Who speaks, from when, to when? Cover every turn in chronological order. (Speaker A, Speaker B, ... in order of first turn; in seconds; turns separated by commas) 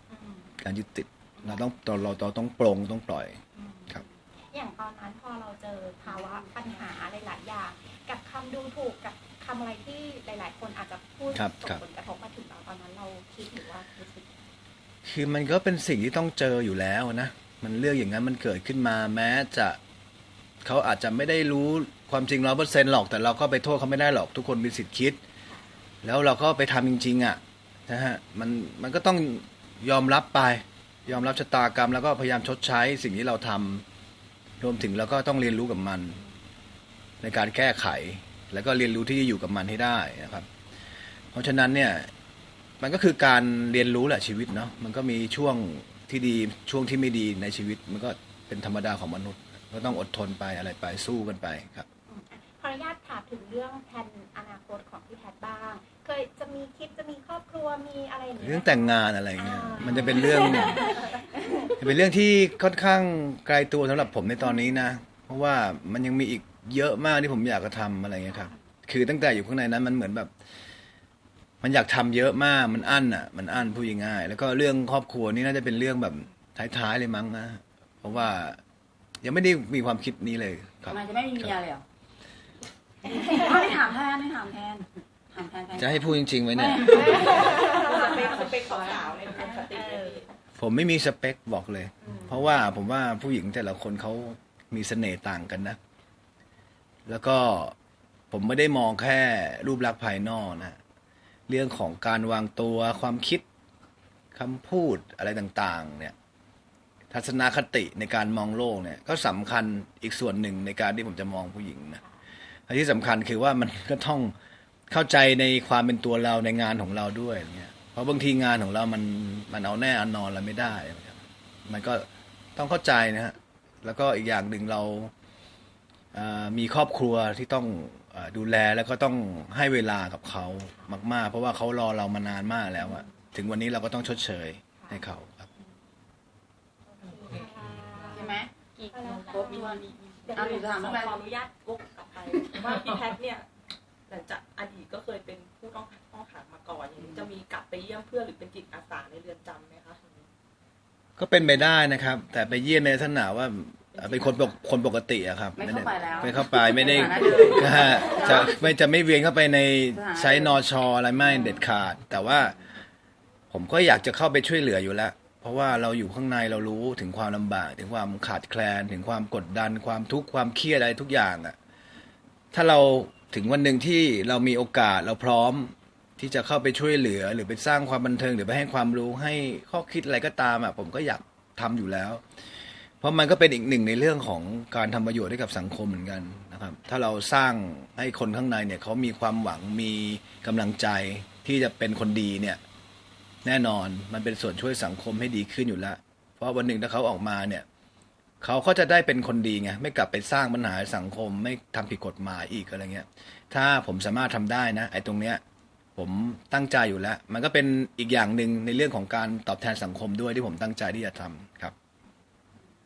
Speaker A: 0.1-0.5, Speaker B: 0.6-4.0, Speaker A: 1.4-1.6, Speaker A: 3.5-14.3, Speaker B: 11.3-11.8, Speaker B: 15.0-19.8, Speaker B: 20.6-25.2, Speaker B: 26.0-33.8, Speaker B: 34.6-36.2, Speaker B: 37.2-40.5, Speaker B: 41.3-42.1, Speaker B: 42.8-51.9, Speaker A: 52.1-61.8, Speaker B: 58.4-60.9, Speaker B: 61.8-70.3, Speaker B: 71.6-78.6, Speaker B: 79.2-81.6, Speaker C: 80.8-81.8, Speaker A: 83.0-83.7, Speaker C: 83.1-89.8, Speaker B: 85.8-87.3, Speaker A: 87.2-89.0, Speaker D: 87.4-90.3, Speaker A: 89.7-90.1, Speaker B: 90.6-95.8, Speaker B: 97.1-97.7, Speaker B: 98.3-100.8, Speaker B: 101.5-103.4, Speaker B: 104.3-106.1, Speaker B: 107.1-112.0, Speaker B: 112.7-114.3, Speaker B: 114.9-125.1, Speaker B: 126.1-135.5, Speaker A: 132.8-133.1, Speaker A: 134.8-135.0, Speaker A: 136.9-141.0, Speaker C: 138.1-138.5, Speaker C: 139.2-141.2, Speaker D: 139.4-143.5, Speaker D: 144.1-150.3, Speaker C: 147.0-147.2, Speaker B: 151.2-162.6, Speaker D: 153.9-154.5, Speaker C: 155.5-158.6, Speaker D: 156.1-156.3, Speaker C: 159.9-160.6, Speaker B: 163.5-171.6, Speaker B: 172.5-182.2, Speaker B: 183.0-192.6, Speaker B: 193.4-197.6, Speaker B: 198.4-205.4, Speaker B: 205.9-211.7